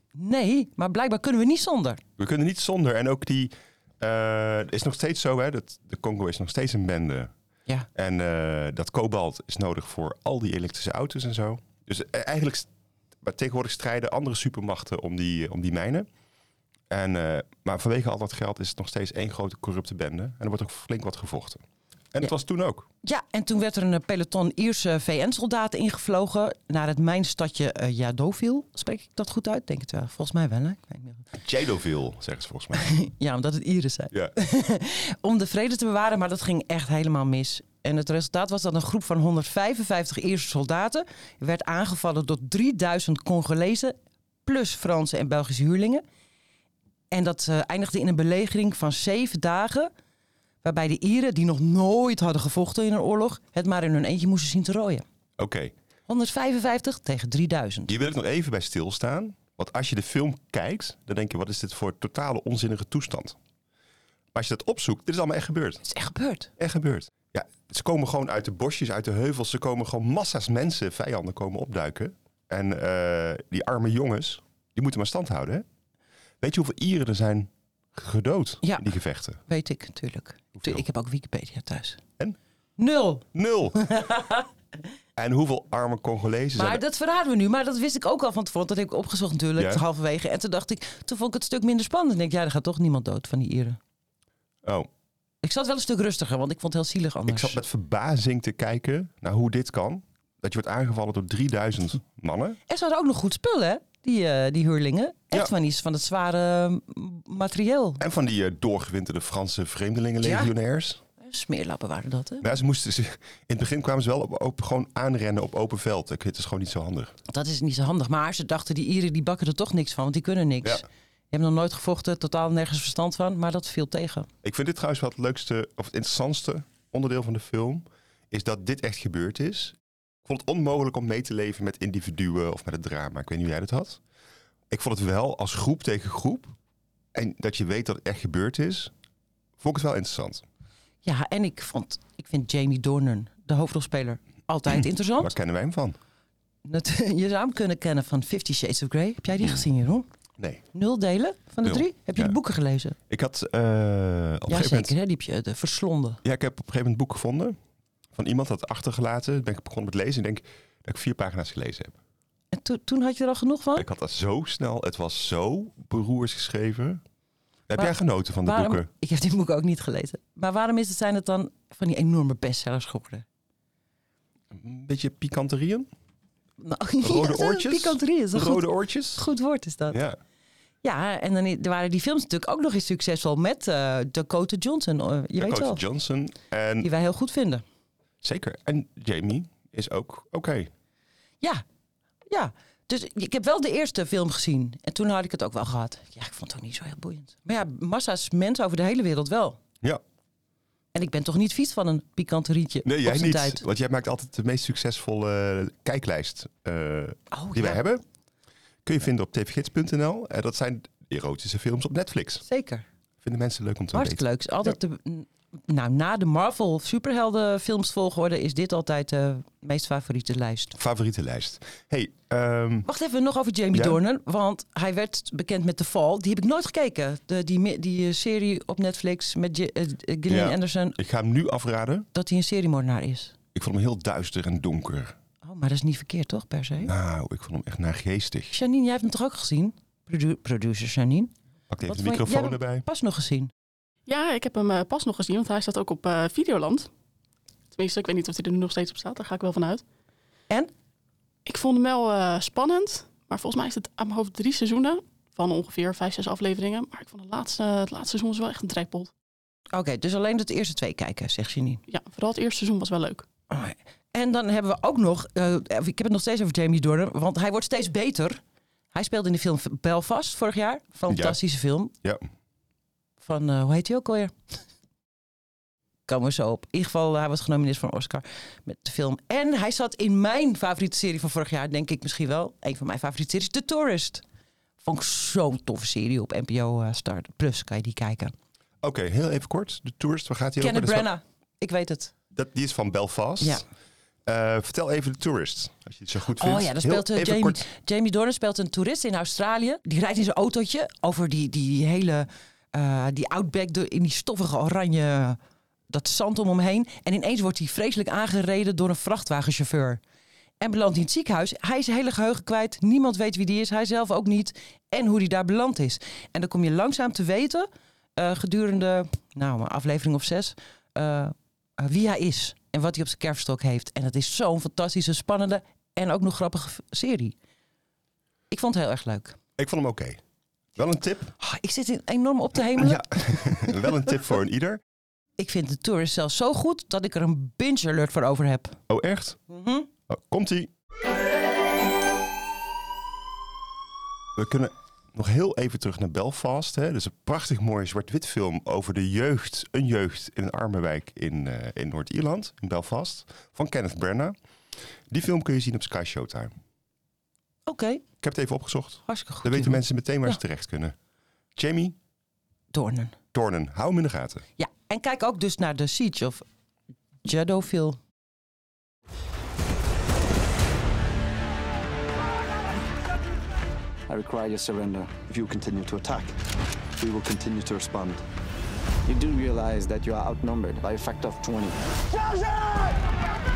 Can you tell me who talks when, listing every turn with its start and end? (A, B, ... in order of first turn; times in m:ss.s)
0:00.1-0:02.0 A
0:02.2-0:07.3 B
0:07.9-0:12.7 B
0:13.2-0:16.1 B
0:16.9-0:21.6 B
0:22.1-0:22.8 B
0:23.0-0:31.2 A
0:31.4-0:32.9 B
0:32.7-0:46.0 A
0:47.1-0:49.9 A
0:50.6-0:55.0 A
0:55.4-0:55.7 B
0:56.1-0:57.9 A
0:57.9-1:03.4 B
1:04.3-1:05.8 B
1:05.8-1:06.5 A
1:06.6-1:15.6 B
1:16.4-1:19.4 B
1:18.6-1:18.9 A
1:19.5-1:22.0 A
1:20.6-1:20.8 B
1:22.8-1:24.5 A
1:23.3-1:24.1 B
1:25.2-1:26.8 B
1:26.6-1:33.8 A
1:29.6-1:29.8 B
1:35.4-1:37.6 A
1:37.3-1:42.6 B
1:42.7-1:48.0 A
1:48.0-1:51.0 B
1:50.2-1:50.5 A
1:51.2-1:52.5 A
1:52.4-1:57.1 B
1:57.3-2:04.3 A
2:04.4-2:14.0 B
2:14.7-2:16.5 B
2:17.1-2:18.9 B
2:19.6-2:20.4 B
2:21.0-2:25.3 A
2:24.7-2:26.0 B
2:26.6-2:30.0 A
2:30.4-2:30.6 B
2:30.7-2:33.0 A
2:31.6-2:32.4 B
2:33.1-2:34.9 B
2:34.5-2:36.2 A
2:36.2-2:37.5 B
2:38.2-2:42.0 B
2:42.5-2:43.8 A
2:43.8-2:47.0 B
2:47.7-2:48.9 B
2:48.4-2:53.2 A
2:54.5-2:55.9 B
2:56.6-3:00.0 A
2:57.0-2:59.2 B
2:59.9-3:00.2 B
3:00.8-3:05.8 A
3:05.4-3:06.9 B
3:06.8-3:07.6 A
3:08.2-3:10.7 B
3:12.3-3:19.6 A
3:20.9-3:23.6 A
3:22.8-3:28.0 B
3:27.3-3:27.8 A
3:28.8-3:32.4 B
3:32.4-3:32.8 A
3:33.2-3:34.8 B
3:33.9-3:40.7 A
3:40.7-3:42.9 B
3:42.8-3:51.0 A
3:43.7-3:44.0 B
3:50.3-3:52.1 B
3:52.1-3:53.3 A
3:53.5-3:55.2 B
3:55.4-3:56.9 A
3:56.8-3:58.6 B
3:58.5-4:01.3 A
4:01.7-4:02.8 B
4:01.9-4:03.5 A
4:04.1-4:06.9 C
4:07.7-4:09.8 C
4:11.4-4:19.1 C
4:19.7-4:21.8 A
4:21.9-4:23.2 C
4:23.5-4:28.4 A
4:28.9-4:31.9 A
4:31.1-4:31.4 B
4:33.2-4:34.3 A
4:36.1-4:44.2 A
4:44.8-4:48.3 A
4:48.8-4:51.1 B
4:50.6-4:52.1 A
4:52.3-4:53.6 B
4:54.2-4:57.6 B
4:56.4-5:05.4 A
5:05.9-5:10.0 A
5:10.6-5:27.3 A
5:28.5-5:29.4 A
5:29.6-5:30.2 B
5:30.8-5:31.3 B
5:31.4-5:34.1 A
5:32.7-5:34.8 B
5:35.4-5:38.8 A
5:38.9-5:39.4 B
5:39.5-5:39.9 A
5:40.1-5:40.7 B
5:44.4-5:54.3 B
5:55.1-5:56.5 B
5:57.7-5:58.0 A
5:58.2-6:00.9 B
5:59.1-6:00.4 A
6:01.6-6:02.0 B
6:02.7-6:03.1 A
6:03.3-6:04.4 B
6:04.6-6:06.4 A
6:07.2-6:08.0 A
6:14.1-6:16.4 D
6:17.0-6:18.2 D
6:19.0-6:21.8 D